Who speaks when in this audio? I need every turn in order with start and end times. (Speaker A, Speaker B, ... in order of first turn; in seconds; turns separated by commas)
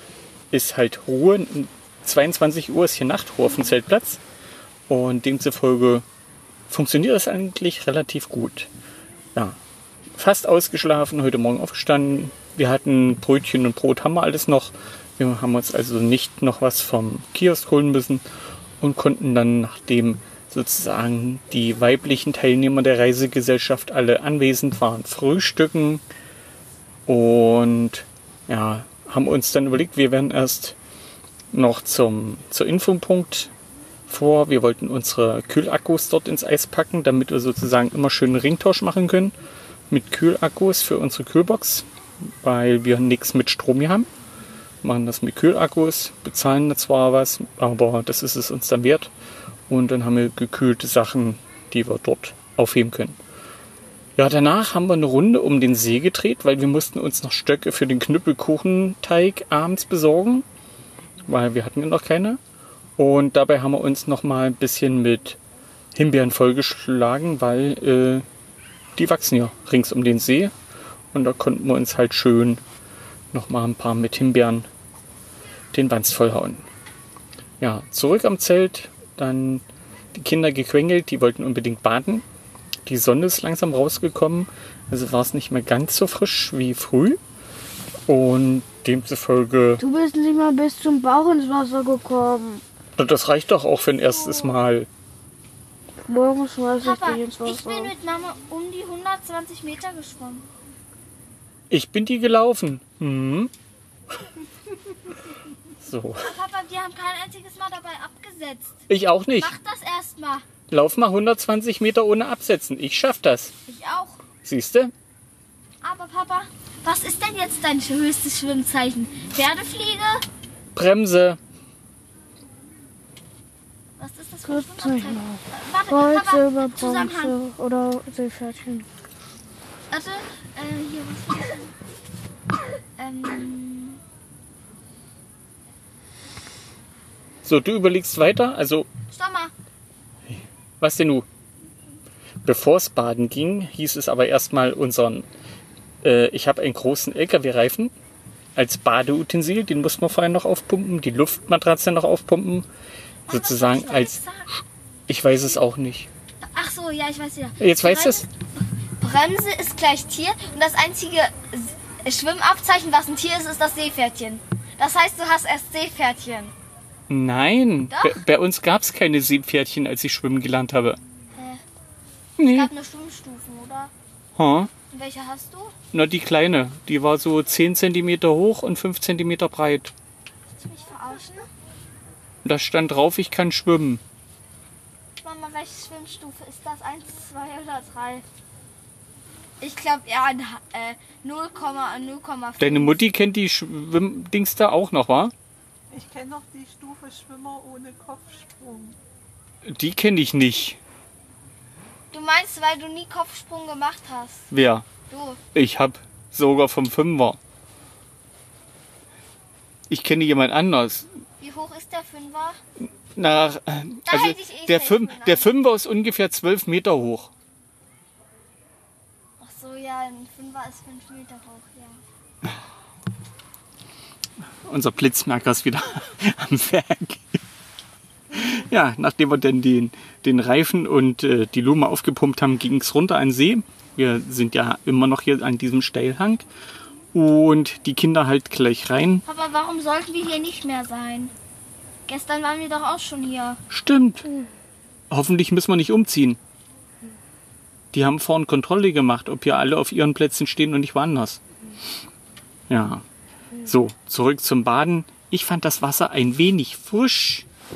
Speaker A: 0.5-4.2, Speaker A: 4.9-6.0, Speaker A: 6.7-8.7, Speaker A: 10.2-18.2, Speaker A: 18.8-26.0, Speaker A: 27.1-30.8, Speaker A: 31.5-33.5, Speaker A: 34.1-39.4, Speaker A: 39.9-41.9, Speaker A: 42.4-44.1, Speaker A: 44.8-49.1, Speaker A: 49.7-53.2, Speaker A: 54.2-60.5, Speaker A: 61.3-62.4, Speaker A: 63.0-65.4, Speaker A: 66.0-68.2, Speaker A: 69.0-70.5, Speaker A: 71.1-72.6, Speaker A: 73.3-74.7, Speaker A: 75.7-76.7, Speaker A: 77.6-82.2, Speaker A: 82.9-87.2, Speaker A: 88.1-89.8, Speaker B: 89.8-92.6, Speaker A: 93.0-94.9, Speaker C: 94.1-94.5, Speaker B: 96.1-97.9, Speaker C: 96.8-100.5, Speaker A: 101.7-103.5, Speaker A: 105.8-106.3, Speaker C: 106.2-108.8, Speaker A: 108.9-109.5, Speaker C: 109.4-110.5, Speaker A: 110.7-113.5, Speaker C: 113.7-114.2, Speaker A: 114.4-114.9, Speaker C: 115.8-120.2, Speaker A: 120.7-121.4, Speaker C: 124.0-127.4, Speaker B: 124.5-128.9, Speaker C: 129.9-131.7, Speaker C: 133.0-134.0, Speaker A: 137.4-138.9, Speaker C: 139.1-139.5, Speaker A: 140.4-141.3, Speaker A: 142.4-145.3, Speaker A: 146.0-147.9, Speaker A: 148.6-152.7, Speaker C: 153.3-154.5, Speaker A: 153.3-154.2, Speaker A: 155.1-156.1, Speaker C: 156.4-158.3, Speaker A: 157.6-158.3, Speaker C: 159.0-166.5, Speaker A: 167.1-171.0, Speaker C: 167.9-168.2, Speaker C: 171.3-171.6, Speaker A: 172.4-172.7, Speaker C: 172.4-173.9, Speaker A: 174.4-174.7, Speaker C: 174.9-175.8, Speaker A: 175.9-179.9, Speaker C: 180.6-181.5, Speaker A: 182.4-184.0, Speaker C: 185.2-188.2, Speaker C: 189.6-193.0, Speaker A: 192.6-195.3, Speaker D: 195.9-199.0, Speaker A: 199.7-200.8, Speaker C: 202.1-204.4, Speaker A: 204.5-204.9, Speaker C: 205.1-205.4, Speaker A: 205.5-207.4, Speaker A: 209.9-211.1, Speaker C: 211.4-212.6, Speaker A: 213.2-217.3, Speaker C: 214.1-215.5, Speaker C: 219.4-222.0, Speaker A: 224.7-227.4, Speaker A: 228.3-236.4, Speaker A: 237.1-239.2, Speaker C: 239.2-241.3, Speaker C: 242.1-243.6, Speaker A: 243.7-244.3, Speaker A: 245.1-246.4, Speaker A: 247.9-251.4, Speaker A: 252.7-253.0, Speaker A: 253.6-257.5